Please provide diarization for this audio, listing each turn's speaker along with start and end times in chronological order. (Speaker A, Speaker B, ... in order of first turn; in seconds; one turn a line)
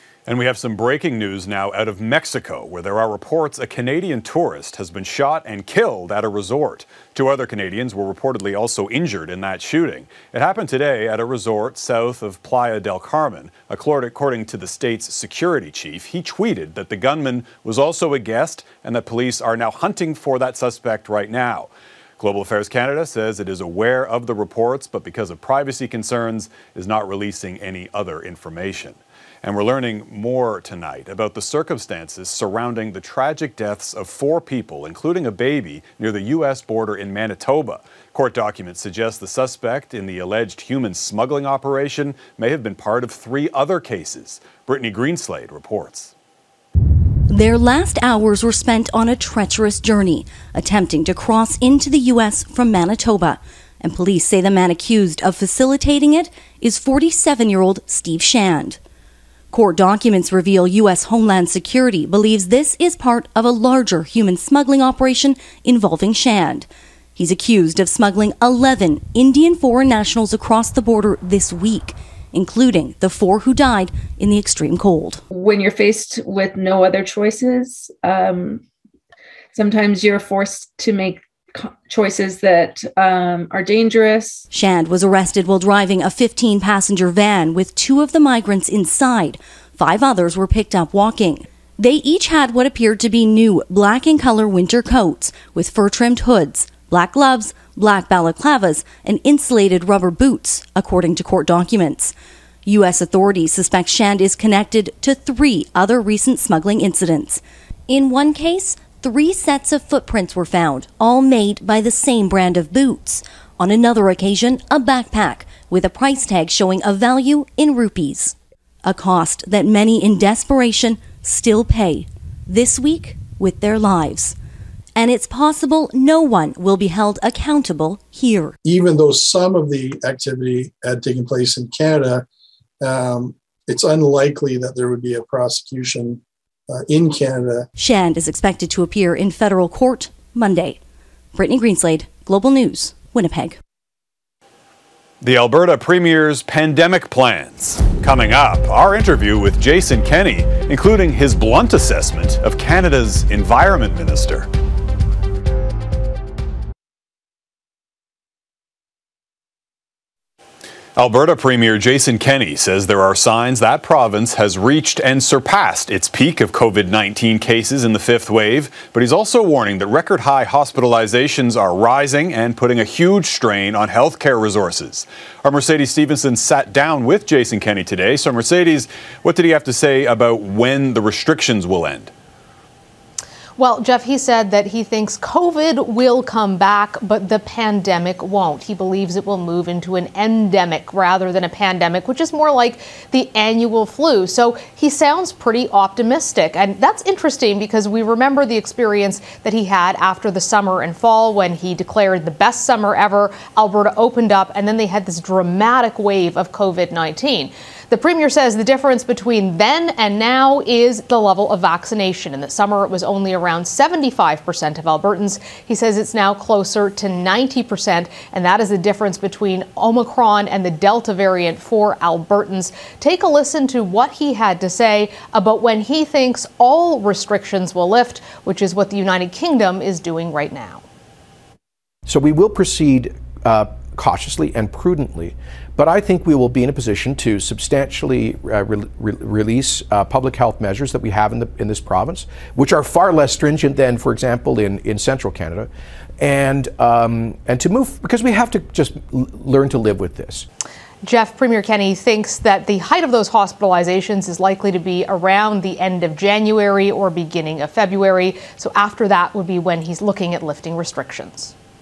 Speaker A: 0.3-46.1
Speaker B: 47.3-58.8
Speaker B: 59.5-75.2
Speaker C: 75.3-78.6
Speaker C: 79.5-84.5
Speaker B: 84.5-102.1
Speaker B: 102.7-124.4
Speaker B: 125.0-128.6
Speaker D: 128.6-132.3
Speaker D: 132.8-137.7
Speaker B: 137.8-140.8
Speaker B: 141.3-143.6
Speaker A: 145.2-154.5
Speaker A: 161.0-182.1
Speaker E: 183.6-230.8
Speaker F: 232.1-245.7
Speaker F: 246.2-250.5
Speaker E: 251.0-261.5